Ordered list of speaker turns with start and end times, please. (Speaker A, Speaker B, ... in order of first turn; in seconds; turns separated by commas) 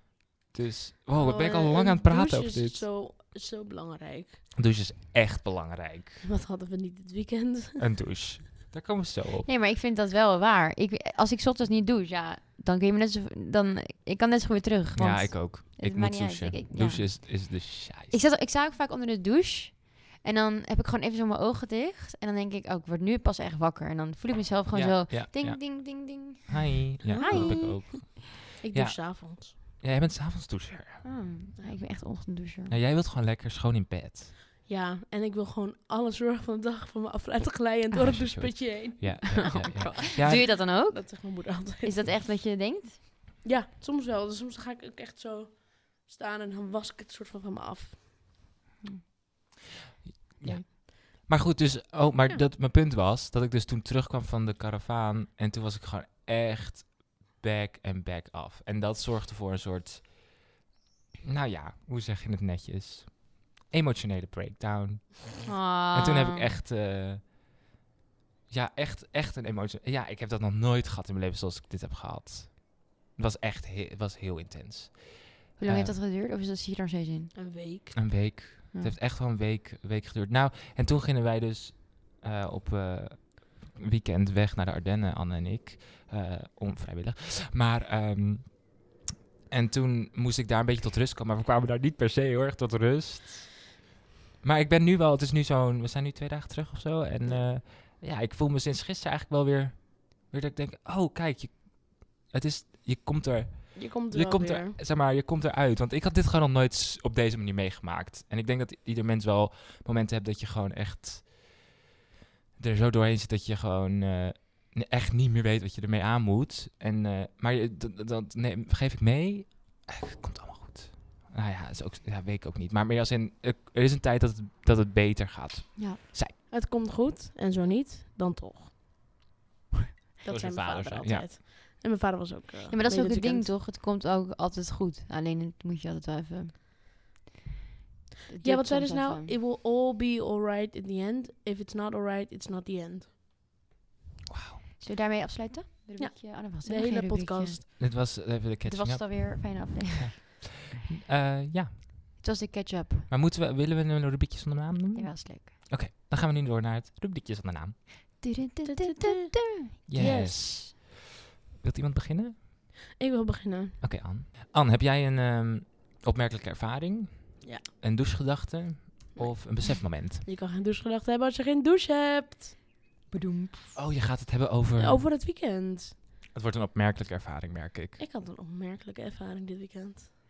Speaker A: 0.5-2.9, Speaker B: 1.1-4.4, Speaker A: 4.5-6.2, Speaker B: 6.2-7.8, Speaker A: 7.8-9.5, Speaker C: 9.4-28.0, Speaker A: 15.0-18.2, Speaker A: 24.7-31.2, Speaker B: 27.0-27.9, Speaker B: 28.6-29.5, Speaker C: 31.0-32.7, Speaker A: 32.7-34.3, Speaker B: 34.6-42.0, Speaker A: 38.0-40.5, Speaker C: 39.3-43.0, Speaker B: 43.4-48.0, Speaker A: 50.0-60.4, Speaker A: 61.2-67.3, Speaker C: 65.5-66.5, Speaker A: 68.5-76.0, Speaker C: 75.6-77.3, Speaker B: 77.3-77.9, Speaker A: 77.9-88.9, Speaker A: 89.5-93.6, Speaker A: 94.4-111.6, Speaker B: 103.7-104.8, Speaker A: 112.6-126.4, Speaker B: 126.5-128.7, Speaker B: 130.2-133.5, Speaker A: 130.2-131.3, Speaker C: 132.7-136.6, Speaker C: 138.3-139.3, Speaker B: 138.4-143.1, Speaker A: 144.3-144.6, Speaker C: 144.8-148.1, Speaker B: 146.0-147.6, Speaker A: 147.8-152.1, Speaker C: 148.6-150.2, Speaker C: 152.2-153.1, Speaker A: 153.1-157.8, Speaker C: 154.9-155.5, Speaker C: 158.2-160.3, Speaker B: 158.6-160.6, Speaker A: 159.9-161.0, Speaker A: 161.6-162.4, Speaker B: 163.0-163.8, Speaker A: 163.8-170.2, Speaker B: 169.2-172.5, Speaker C: 173.1-173.8, Speaker A: 173.7-175.1, Speaker B: 174.8-176.0, Speaker A: 176.3-178.0, Speaker B: 178.0-180.1